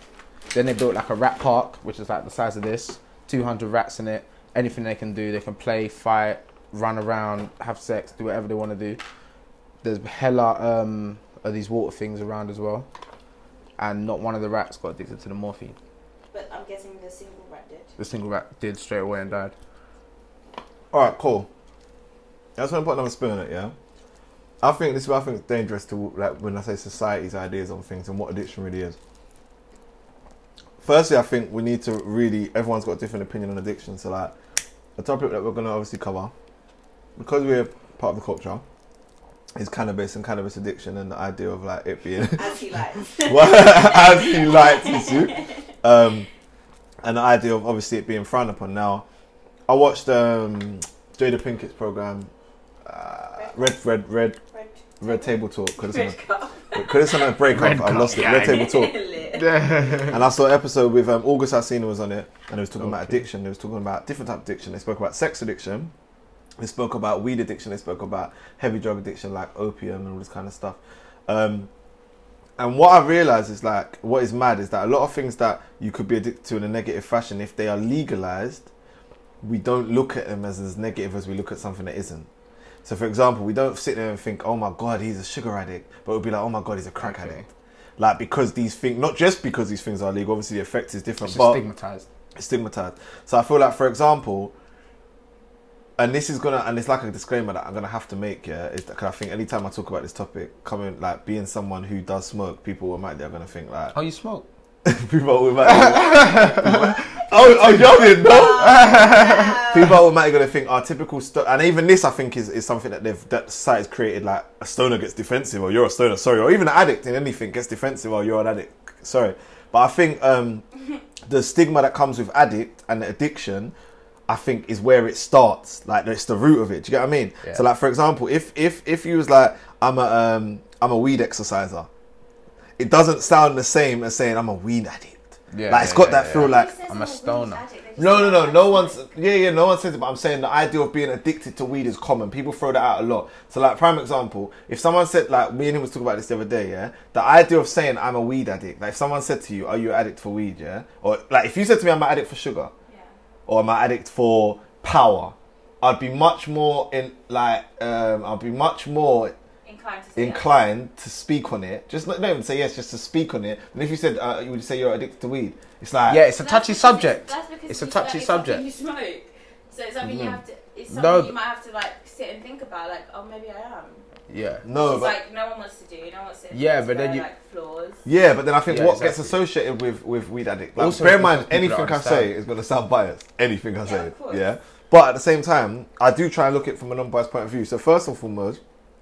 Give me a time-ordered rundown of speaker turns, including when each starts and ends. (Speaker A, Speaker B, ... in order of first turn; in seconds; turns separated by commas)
Speaker A: 0.5-9.0, Speaker A: 9.8-12.9, Speaker A: 13.8-15.8, Speaker B: 16.3-17.9, Speaker A: 18.0-19.5, Speaker C: 20.9-21.5, Speaker C: 22.6-23.7, Speaker C: 24.6-29.0, Speaker C: 30.8-34.3, Speaker C: 35.0-36.3, Speaker C: 37.2-38.6, Speaker C: 39.5-46.3, Speaker B: 42.3-45.6, Speaker C: 47.0-49.0, Speaker C: 49.7-52.3, Speaker C: 52.8-54.4, Speaker B: 53.3-57.4, Speaker C: 55.0-56.2, Speaker C: 56.7-59.0, Speaker A: 57.5-58.8, Speaker B: 58.1-59.7, Speaker A: 59.3-60.2, Speaker C: 60.0-65.9, Speaker A: 62.8-63.2, Speaker C: 66.6-71.7, Speaker C: 72.6-78.7, Speaker C: 79.4-82.3, Speaker C: 82.8-87.4, Speaker A: 87.0-87.5, Speaker C: 88.0-91.6, Speaker A: 91.2-92.1, Speaker C: 92.3-94.5, Speaker C: 96.0-104.0, Speaker A: 103.9-104.5, Speaker C: 104.8-108.9, Speaker A: 105.6-109.8, Speaker B: 107.1-110.0, Speaker C: 109.6-120.6, Speaker C: 121.2-123.7, Speaker C: 124.3-131.9, Speaker C: 132.8-136.7, Speaker A: 135.5-137.6, Speaker B: 136.3-139.1, Speaker C: 138.0-152.7, Speaker B: 152.9-153.1, Speaker C: 153.5-159.3, Speaker B: 159.6-160.4, Speaker C: 160.2-166.2, Speaker A: 166.1-168.6, Speaker B: 166.3-174.1, Speaker A: 170.0-171.3, Speaker A: 174.3-174.6, Speaker C: 174.6-175.2, Speaker B: 174.8-178.0, Speaker A: 176.5-177.2, Speaker C: 178.1-188.6, Speaker A: 178.7-179.3, Speaker A: 180.8-182.3, Speaker B: 183.8-184.4